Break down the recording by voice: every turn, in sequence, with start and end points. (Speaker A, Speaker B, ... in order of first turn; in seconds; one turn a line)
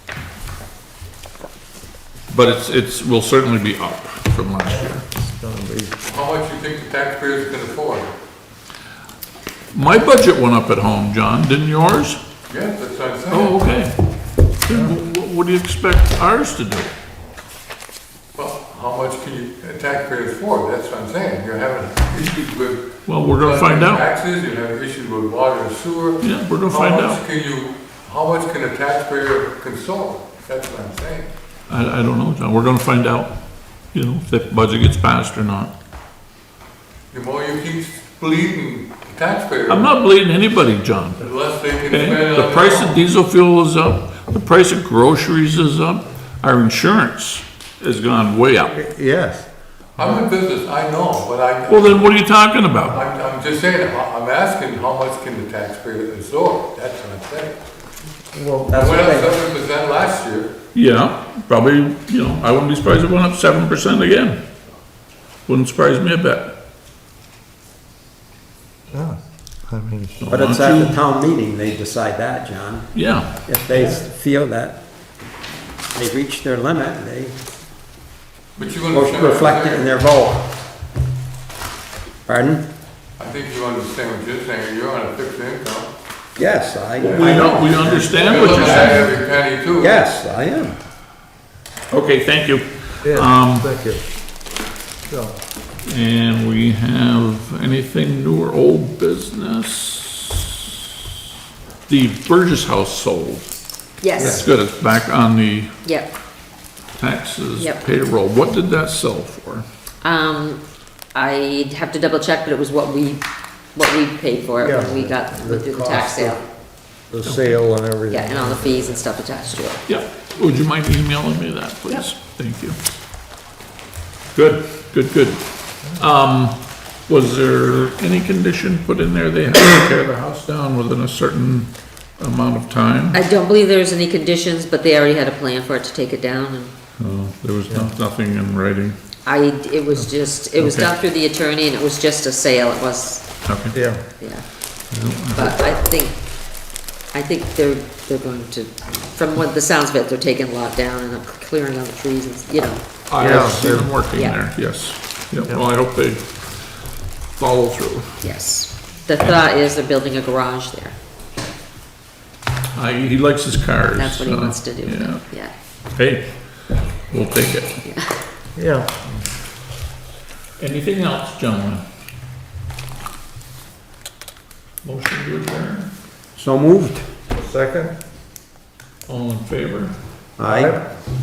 Speaker A: 2.3-5.0
Speaker B: 5.1-6.0
Speaker C: 6.0-8.1
Speaker A: 9.7-12.2
Speaker C: 12.5-13.6
Speaker A: 13.3-14.0
Speaker A: 14.6-16.9
Speaker B: 14.7-14.9
Speaker C: 18.3-31.3
Speaker A: 23.1-24.1
Speaker A: 26.2-27.2
Speaker A: 31.7-33.4
Speaker A: 33.9-35.7
Speaker C: 37.1-39.9
Speaker A: 39.7-41.2
Speaker C: 41.2-43.0
Speaker A: 41.9-48.8
Speaker B: 48.7-50.2
Speaker C: 50.0-52.1
Speaker A: 51.7-53.0
Speaker C: 52.9-57.6
Speaker B: 58.3-58.8
Speaker D: 58.7-59.3
Speaker C: 58.7-60.5
Speaker A: 60.7-64.4
Speaker A: 65.5-66.5
Speaker B: 68.9-70.3
Speaker A: 70.2-71.0
Speaker D: 70.3-72.9
Speaker A: 72.9-73.3
Speaker D: 73.4-74.8
Speaker D: 75.9-77.4
Speaker C: 78.5-79.9
Speaker D: 78.9-80.5
Speaker D: 82.3-82.7
Speaker C: 83.2-85.9
Speaker D: 86.4-88.1
Speaker C: 87.0-90.0
Speaker A: 87.0-89.1
Speaker D: 89.8-90.8
Speaker A: 91.9-93.7
Speaker B: 93.0-94.0
Speaker B: 95.1-95.3
Speaker A: 95.8-100.3
Speaker A: 101.9-103.5
Speaker E: 104.0-104.5
Speaker A: 104.1-105.7
Speaker B: 104.2-104.4
Speaker E: 105.8-106.1
Speaker A: 107.0-109.7
Speaker E: 107.6-107.8
Speaker E: 110.0-110.6
Speaker E: 111.1-113.2
Speaker E: 113.7-116.4
Speaker B: 114.6-115.2
Speaker D: 115.4-116.4
Speaker B: 117.1-119.0
Speaker A: 117.2-117.6
Speaker E: 118.1-119.8
Speaker A: 119.8-122.8
Speaker A: 124.3-133.2
Speaker E: 133.1-136.7
Speaker A: 137.0-139.0
Speaker E: 139.2-143.3
Speaker A: 140.6-140.9
Speaker A: 143.4-143.8
Speaker B: 143.7-144.0
Speaker E: 144.2-144.5
Speaker A: 144.9-145.5
Speaker E: 145.3-146.2
Speaker E: 147.1-154.6
Speaker A: 153.1-156.7
Speaker B: 153.2-153.9
Speaker A: 157.3-158.2
Speaker E: 158.2-160.9
Speaker A: 162.7-165.3
Speaker E: 163.9-165.5
Speaker A: 165.9-167.8
Speaker E: 167.8-168.2
Speaker B: 168.6-168.9
Speaker A: 170.6-171.8
Speaker A: 174.8-175.9
Speaker D: 176.3-177.1
Speaker B: 177.3-177.9
Speaker A: 179.1-179.9
Speaker D: 180.4-180.8
Speaker B: 180.4-180.8